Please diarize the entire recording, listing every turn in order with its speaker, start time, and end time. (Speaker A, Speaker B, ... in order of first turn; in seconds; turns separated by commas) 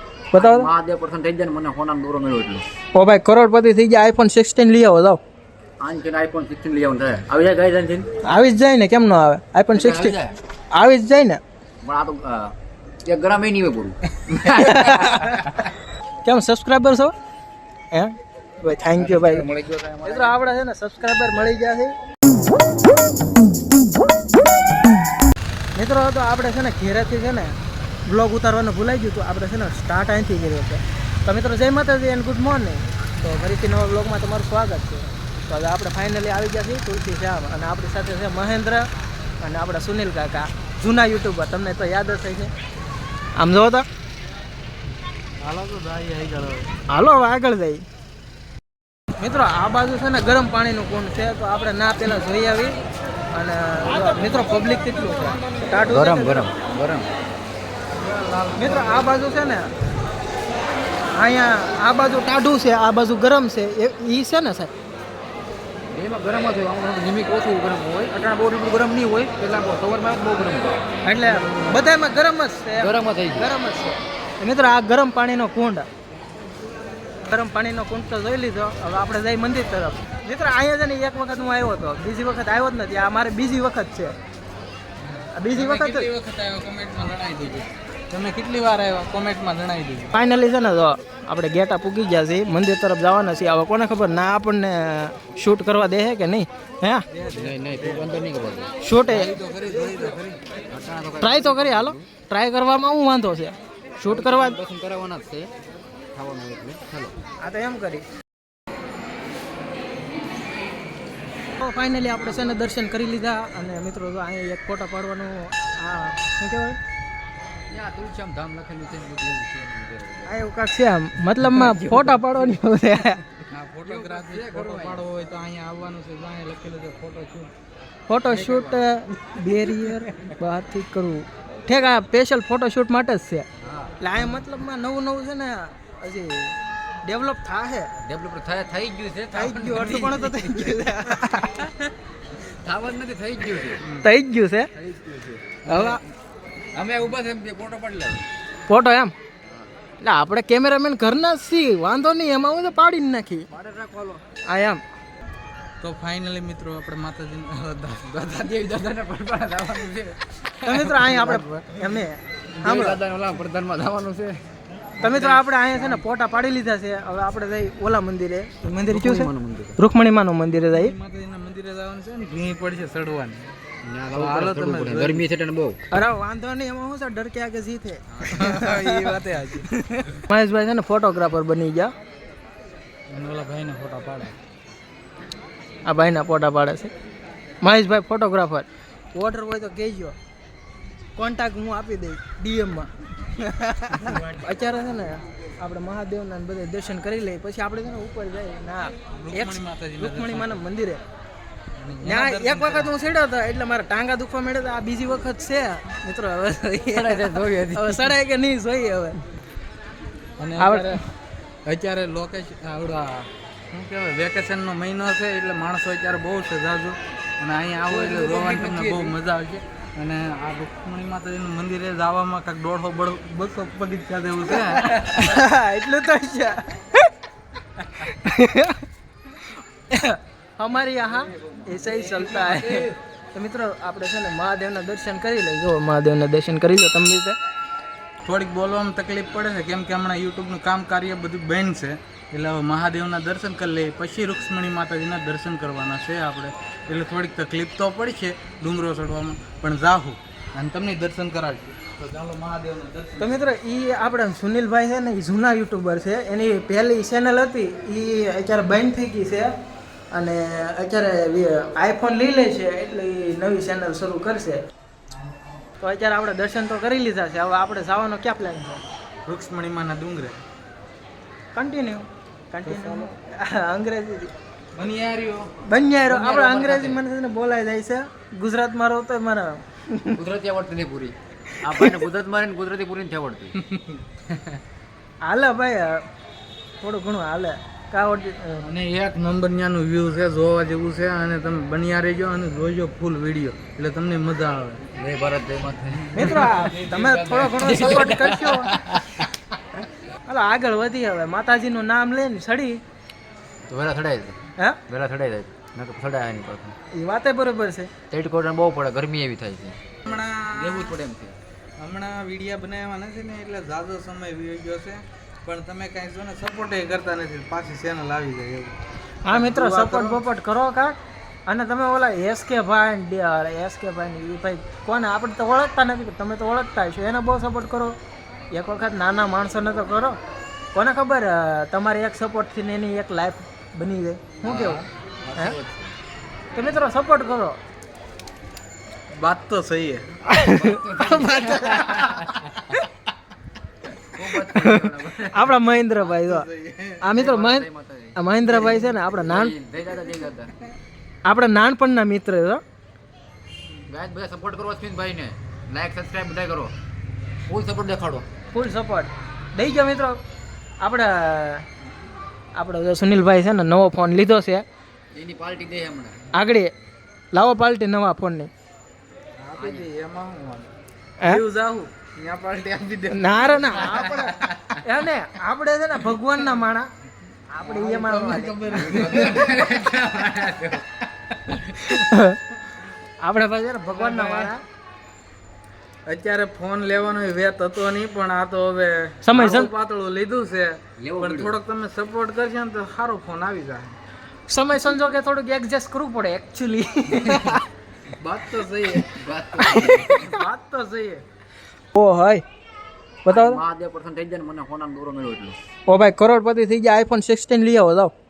Speaker A: 0.3-0.7, Speaker B: 0.3-2.6, Speaker A: 3.0-5.2, Speaker B: 5.8-8.1, Speaker A: 8.3-10.2, Speaker B: 9.7-10.4, Speaker A: 10.7-11.4, Speaker B: 11.8-15.7, Speaker C: 14.4-14.8, Speaker A: 14.5-15.4, Speaker A: 16.2-17.1, Speaker A: 17.9-19.5, Speaker B: 19.0-20.3, Speaker C: 19.2-20.1, Speaker A: 20.1-21.9, Speaker A: 25.8-27.6, Speaker A: 28.1-38.9, Speaker A: 39.4-42.5, Speaker A: 43.4-43.9, Speaker C: 45.4-46.7, Speaker A: 46.9-47.8, Speaker A: 49.2-52.8, Speaker A: 53.3-56.5, Speaker B: 55.9-57.1, Speaker C: 58.0-59.2, Speaker A: 58.6-59.7, Speaker A: 61.2-64.7, Speaker B: 65.9-70.8, Speaker A: 71.0-75.9, Speaker B: 72.8-73.5, Speaker A: 77.3-84.2, Speaker C: 85.1-90.2, Speaker A: 85.3-86.1, Speaker A: 90.2-97.0, Speaker C: 97.1-98.2, Speaker B: 97.3-98.7, Speaker A: 98.8-99.4, Speaker C: 99.1-100.4, Speaker B: 100.7-102.0, Speaker A: 101.2-104.6, Speaker B: 104.0-105.5, Speaker B: 106.1-107.2, Speaker A: 107.4-108.0, Speaker A: 111.6-116.8, Speaker B: 117.7-120.4, Speaker A: 120.3-123.2, Speaker B: 121.4-122.4, Speaker C: 123.5-127.5, Speaker B: 123.8-125.1, Speaker A: 128.1-133.5, Speaker C: 128.3-128.8, Speaker B: 128.3-128.7, Speaker B: 129.9-130.3, Speaker B: 133.6-133.9, Speaker A: 134.0-137.9, Speaker B: 138.0-140.9, Speaker A: 139.3-141.7, Speaker B: 142.4-143.8, Speaker A: 144.0-144.7, Speaker B: 144.7-145.7, Speaker A: 145.7-146.0, Speaker C: 145.7-146.0, Speaker B: 146.7-148.2, Speaker A: 148.7-149.1, Speaker A: 150.0-153.5, Speaker B: 153.5-154.2, Speaker A: 154.5-154.8, Speaker C: 155.8-158.5, Speaker B: 158.2-161.8, Speaker A: 160.7-163.0, Speaker B: 162.6-164.4, Speaker B: 165.0-166.0, Speaker A: 165.0-170.9, Speaker B: 168.9-169.8, Speaker C: 170.7-173.5, Speaker B: 173.8-175.8, Speaker C: 174.1-175.2, Speaker A: 175.9-179.2, Speaker C: 178.3-180.2, Speaker A: 179.9-181.9, Speaker C: 183.1-184.3, Speaker A: 185.9-186.9, Speaker A: 187.6-190.2, Speaker A: 191.2-201.0, Speaker C: 199.1-200.6, Speaker C: 201.8-202.9, Speaker A: 202.0-209.2, Speaker B: 206.9-208.2, Speaker C: 210.4-211.1, Speaker A: 210.6-211.0, Speaker C: 211.7-225.4, Speaker B: 217.9-219.2, Speaker A: 224.9-227.1, Speaker A: 228.0-228.8, Speaker A: 229.9-237.4, Speaker B: 231.8-232.9, Speaker C: 232.4-232.9, Speaker C: 238.2-253.4, Speaker A: 253.2-259.5, Speaker A: 260.1-264.6, Speaker A: 265.8-268.8, Speaker C: 269.3-270.4, Speaker A: 271.6-274.3, Speaker C: 272.6-273.1, Speaker C: 274.8-275.5, Speaker A: 275.7-280.2, Speaker B: 276.1-277.0, Speaker B: 280.1-283.6, Speaker A: 281.7-282.0, Speaker C: 283.6-284.0, Speaker B: 284.3-284.6, Speaker A: 285.2-286.0, Speaker A: 286.8-288.7, Speaker C: 288.6-294.9, Speaker B: 295.0-296.7, Speaker C: 296.1-298.2, Speaker A: 296.1-298.7, Speaker B: 297.5-299.3, Speaker A: 300.3-302.8, Speaker B: 303.7-304.4, Speaker B: 304.9-306.8, Speaker A: 306.9-307.9, Speaker B: 308.1-311.4, Speaker C: 310.1-311.0, Speaker C: 311.8-318.8, Speaker A: 319.3-327.9, Speaker C: 319.3-320.2, Speaker A: 328.5-330.2, Speaker A: 330.7-334.9, Speaker B: 334.4-335.9, Speaker C: 334.5-334.8, Speaker A: 336.6-337.6, Speaker C: 339.2-340.1, Speaker A: 340.3-342.1, Speaker B: 340.4-342.3, Speaker C: 341.7-342.7, Speaker B: 344.1-345.6, Speaker A: 344.4-346.5, Speaker C: 346.0-347.1, Speaker A: 347.0-349.5, Speaker B: 347.1-350.5, Speaker A: 351.3-352.6, Speaker B: 353.9-356.7, Speaker B: 357.5-358.3, Speaker A: 358.5-360.2, Speaker A: 360.8-361.6, Speaker A: 362.6-364.6, Speaker B: 365.1-366.2, Speaker A: 366.3-366.7, Speaker A: 367.3-368.5, Speaker C: 369.4-374.8, Speaker B: 369.6-369.9, Speaker A: 373.1-376.9, Speaker C: 376.2-376.4, Speaker A: 377.5-379.3, Speaker C: 377.6-382.1, Speaker B: 378.9-379.4, Speaker A: 381.8-382.4, Speaker A: 383.2-384.6, Speaker C: 383.9-384.5, Speaker C: 386.1-394.0, Speaker A: 389.2-389.7, Speaker B: 391.0-391.5, Speaker A: 394.5-397.6, Speaker C: 397.2-397.5, Speaker C: 398.2-401.2, Speaker B: 399.1-400.2, Speaker A: 399.6-400.4, Speaker A: 401.9-402.4, Speaker A: 403.2-403.6, Speaker B: 403.3-405.6, Speaker A: 405.9-408.1